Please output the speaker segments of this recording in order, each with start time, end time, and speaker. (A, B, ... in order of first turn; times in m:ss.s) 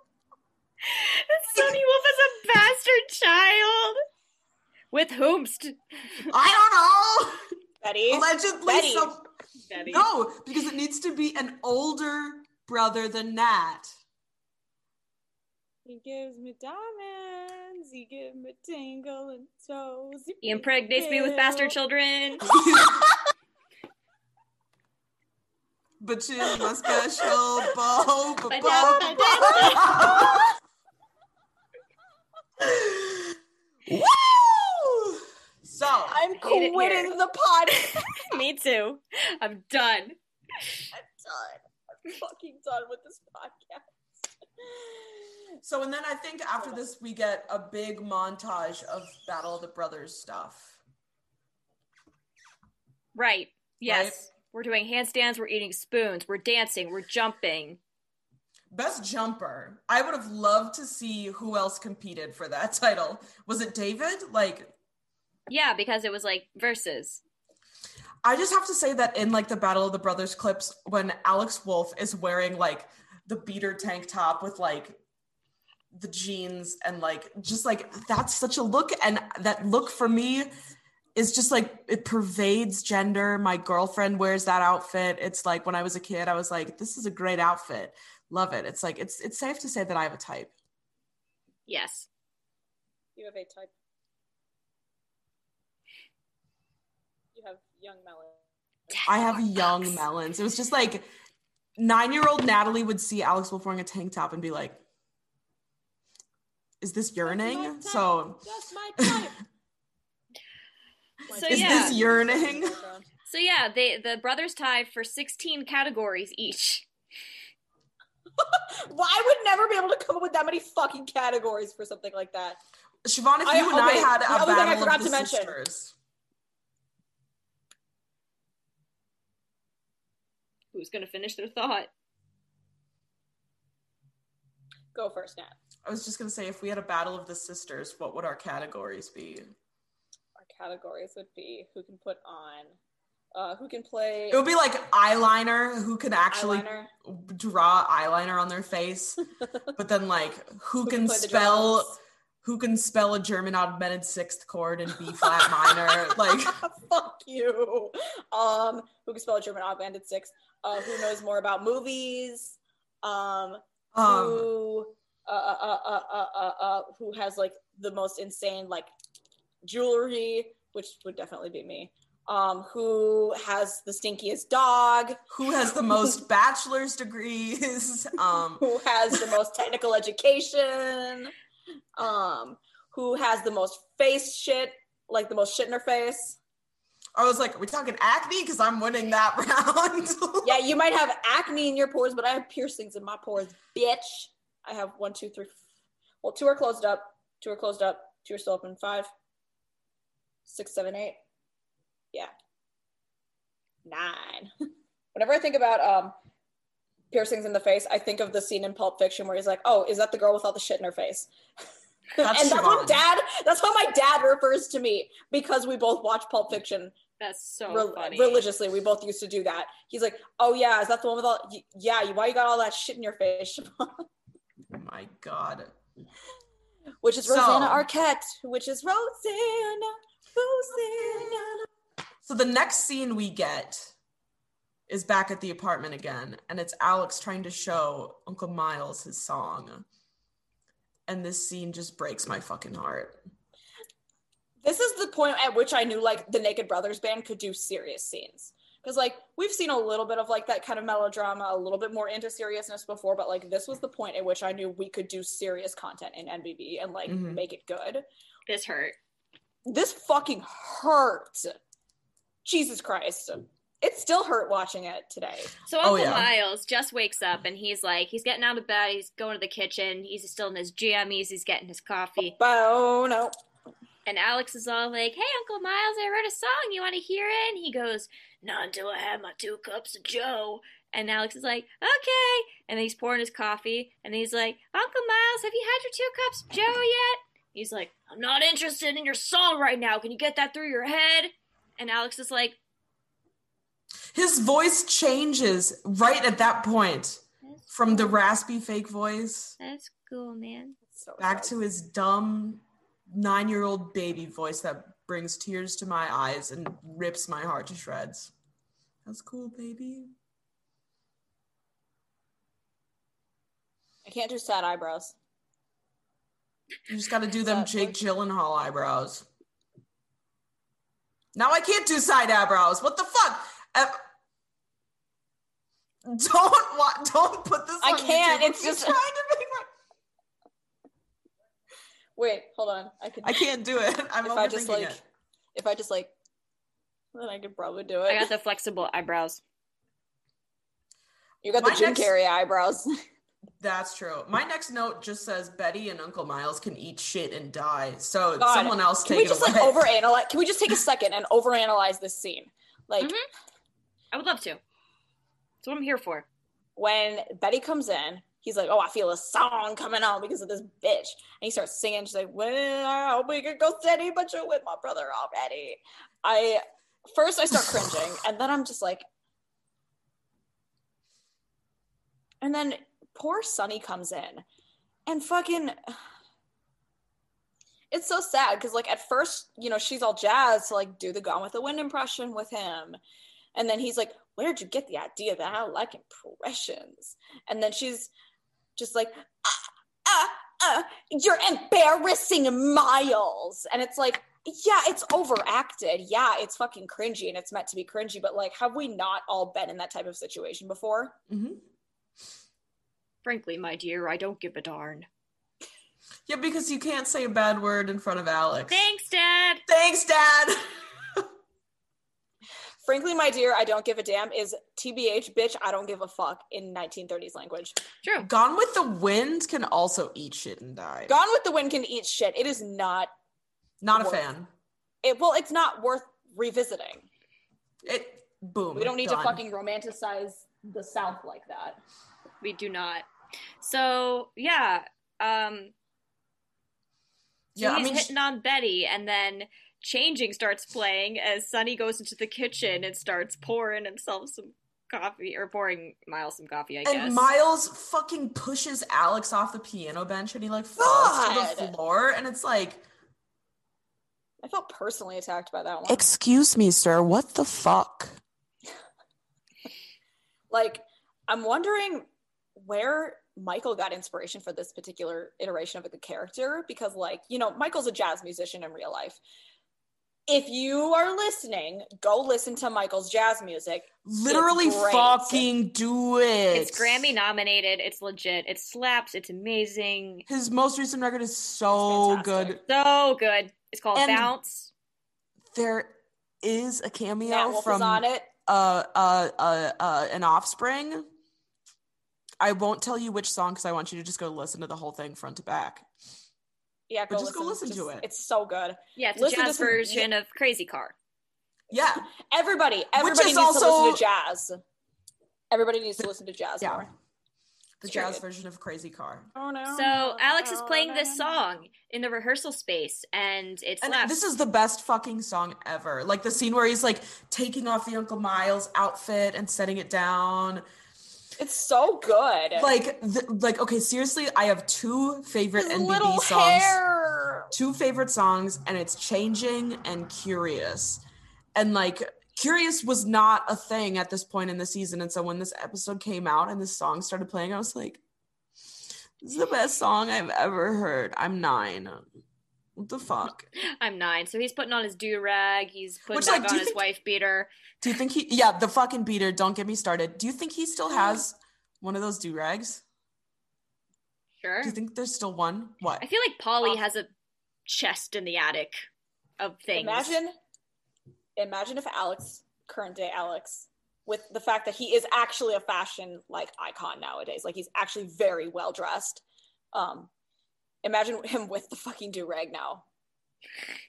0:00.8-0:04.0 A
0:04.9-0:05.8 A
0:06.3-0:07.4 B
0:07.8-0:09.1 C
0:08.1-0:09.2 B
0:09.7-0:10.0 A
0:09.8-0:14.0 B
0:15.8-0:21.7 C
0:20.4-0:22.5 A
0:22.5-0:23.0 B
0:26.0-0:30.5 B
0:28.5-0:30.3 A
0:28.7-0:30.3 C
0:32.6-0:33.3 B
0:33.9-0:36.2 B
0:36.1-0:38.3 C
0:36.4-0:37.1 A
0:38.1-0:40.2 A
0:40.9-0:43.8 C
0:44.6-0:45.2 C
0:45.6-0:50.8 B
0:53.1-0:57.8 A
0:53.8-0:54.2 B
0:58.7-1:04.7 B
1:05.5-1:07.2 A
1:08.2-1:15.0 B
1:15.9-1:20.5 B
1:21.1-1:30.5 B
1:31.7-1:32.1 A
1:33.2-1:33.7 C
1:37.3-1:39.1 C
1:38.9-1:40.0 A
1:39.0-1:41.1 B
1:41.8-1:44.8 B
1:46.8-1:48.4 B
1:47.2-1:49.4 C
1:51.3-1:53.1 C
1:51.3-1:52.0 A
1:51.5-1:52.8 B
1:53.3-1:56.8 A
1:58.4-2:02.6 C
2:03.0-2:05.9 B
2:03.4-2:05.5 C
2:10.7-2:11.9 A
2:14.9-2:15.5 C
2:15.8-2:19.5 B
2:20.4-2:22.7 C
2:23.3-2:24.4 C
2:24.3-2:29.2 B
2:26.3-2:26.9 C
2:29.7-2:36.6 B
2:30.8-2:32.0 C
2:35.2-2:48.9 C
2:43.9-2:44.5 B
2:49.6-2:55.2 C
2:55.3-2:58.6 B
2:58.6-3:01.3 C
3:02.0-3:06.4 C
3:07.1-3:10.6 B
3:10.4-3:15.6 C
3:16.2-3:19.1 C
3:20.4-3:21.2 C
3:23.8-3:24.5 C
3:25.1-3:26.1 C
3:27.1-3:31.3 C
3:32.2-3:36.9 C
3:32.2-3:33.0 B
3:37.2-3:38.4 A
3:37.7-3:44.0 C
3:44.7-3:45.7 B
3:47.0-3:51.6 C
3:47.2-3:47.8 B
3:52.2-3:53.9 B
3:54.9-3:59.8 B
4:01.1-4:03.2 B
4:04.6-4:18.0 C
4:17.1-4:17.4 B
4:18.5-4:19.0 A
4:19.6-4:21.5 C
4:22.4-4:25.5 C
4:25.7-4:32.4 A
4:25.8-4:26.3 B
4:32.4-4:33.3 C
4:34.0-4:52.6 A
4:54.1-4:59.6 B
4:57.5-4:58.1 A
4:59.6-5:00.8 A
5:00.9-5:01.6 C
5:01.2-5:08.3 B
5:09.0-5:10.1 B
5:14.0-5:15.1 C
5:16.9-5:19.2 B
5:17.4-5:18.0 C
5:21.3-5:24.0 B
5:26.0-5:29.7 B
5:27.8-5:29.0 C
5:32.2-5:33.4 C
5:33.2-5:35.0 B
5:34.2-5:35.0 C
5:35.5-5:36.1 C
5:37.1-5:38.3 C
5:38.1-5:39.4 A
5:41.4-5:42.9 C
5:41.6-5:42.1 B
5:43.6-5:49.9 B
5:48.4-5:53.1 C
5:54.1-5:54.6 A
5:55.6-5:56.3 A
5:56.8-6:09.0 C
6:12.4-6:14.4 C
6:15.1-6:15.8 C
6:17.9-6:23.0 C
6:23.5-6:28.1 C
6:28.8-6:41.2 C
6:41.3-6:41.6 B
6:43.2-6:45.1 A
6:46.3-6:48.8 B
6:48.7-6:49.6 A
6:49.7-6:51.2 B
6:52.8-6:57.8 C
6:58.0-6:58.3 A
6:58.2-7:01.2 B
7:01.1-7:03.1 C
7:03.8-7:04.5 B
7:03.9-7:04.2 C
7:05.0-7:07.1 C
7:07.8-7:09.4 B
7:08.7-7:11.8 C
7:12.4-7:13.1 A
7:13.6-7:15.7 A
7:17.5-7:18.1 B
7:17.6-7:27.3 A
7:26.8-7:32.8 B
7:30.8-7:31.7 C
7:34.4-7:36.0 C
7:35.9-7:38.2 B
7:40.5-7:49.2 C
7:50.3-7:55.5 C
7:54.0-7:57.1 B
7:56.5-8:00.2 A
8:00.3-8:02.6 B
8:01.7-8:02.6 C
8:02.6-8:04.7 A
8:03.9-8:04.3 B
8:05.5-8:11.0 B
8:07.2-8:08.3 C
8:12.4-8:15.8 B
8:16.9-8:20.1 C
8:17.1-8:18.0 B
8:19.0-8:20.9 A
8:21.7-8:22.1 B
8:22.1-8:24.6 C
8:22.9-8:24.0 B
8:25.5-8:26.9 C
8:27.8-8:29.3 B
8:27.8-8:28.2 C
8:29.3-8:31.5 C
8:29.7-8:34.2 A
8:33.8-8:40.6 B
8:41.4-8:42.7 C
8:42.6-8:46.8 B
8:45.6-8:47.5 C
8:47.5-8:51.0 B
8:51.5-8:58.0 B
8:59.2-9:02.1 B
9:02.8-9:03.5 B
9:03.6-9:07.5 A
9:06.1-9:06.8 B
9:07.8-9:12.8 B
9:14.4-9:14.8 A
9:14.6-9:16.0 B
9:16.0-9:17.1 A
9:17.6-9:18.8 A
9:19.4-9:20.2 A
9:19.7-9:20.3 C
9:21.4-9:30.1 C
9:30.8-9:32.8 C